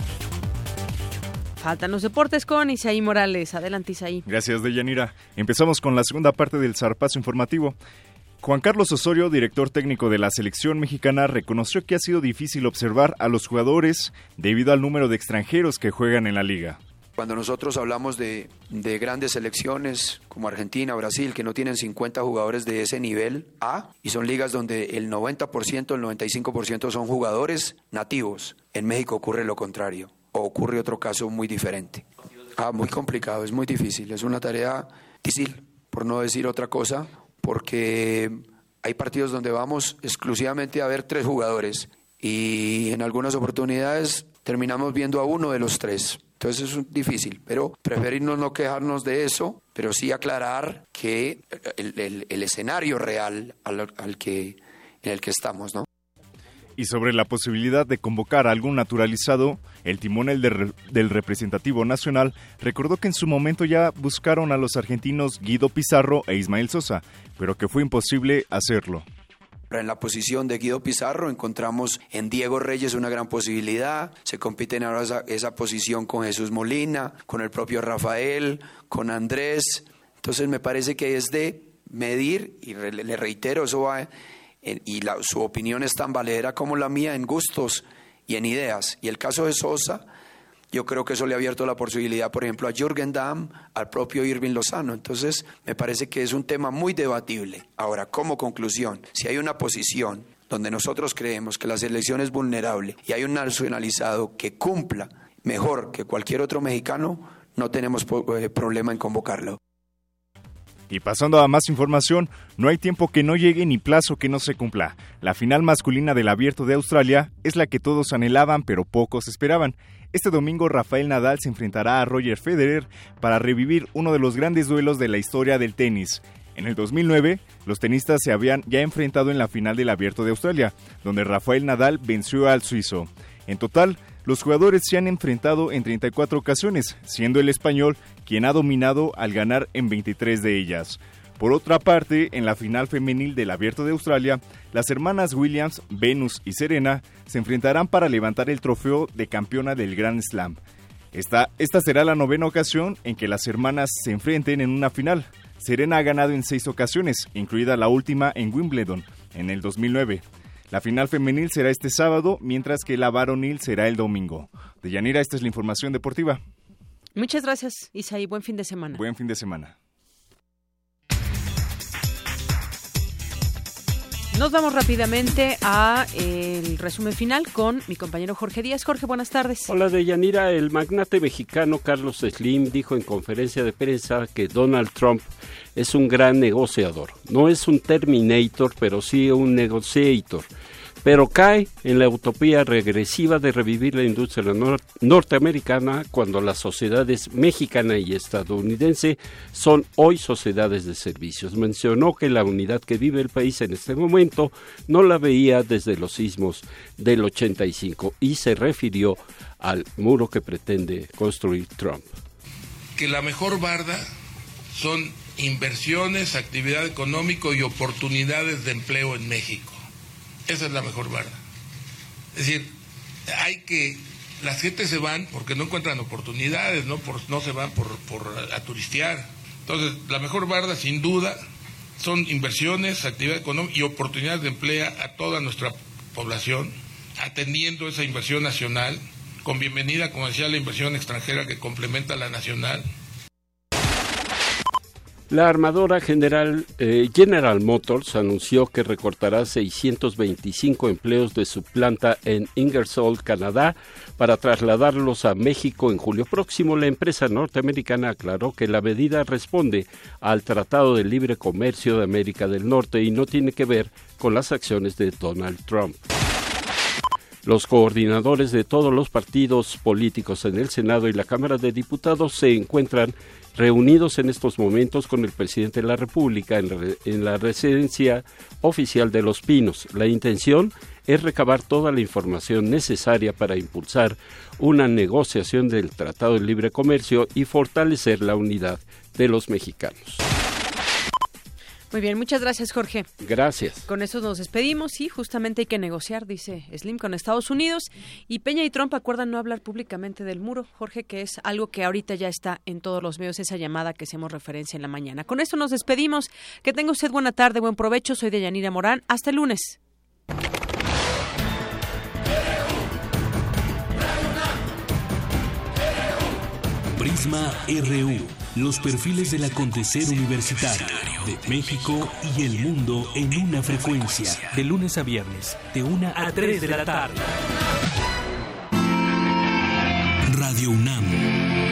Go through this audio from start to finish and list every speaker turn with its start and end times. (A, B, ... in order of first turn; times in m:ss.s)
0:01.6-0:04.2 A
0:04.3-0:07.8 B
0:08.4-0:16.8 B
0:17.2-0:55.9 C
0:56.8-1:09.0 B
1:09.7-1:24.1 C
1:24.6-1:30.1 C
1:30.7-1:49.6 C
1:50.9-2:30.6 B
2:31.1-2:46.4 B
2:47.2-2:49.0 A
2:48.9-2:49.8 B
2:54.3-2:59.7 A
2:59.7-3:10.5 D
3:11.0-3:32.1 D
3:33.0-3:34.1 E
3:34.7-3:39.8 E
3:40.5-3:41.4 E
3:42.4-3:42.7 E
3:43.3-3:51.4 E
3:52.0-4:02.9 E
4:05.3-4:26.0 D
4:27.4-4:50.2 D
4:51.9-4:53.1 A
4:53.2-4:53.8 D
4:53.9-5:09.8 A
5:17.0-5:27.2 F
5:30.3-5:31.2 F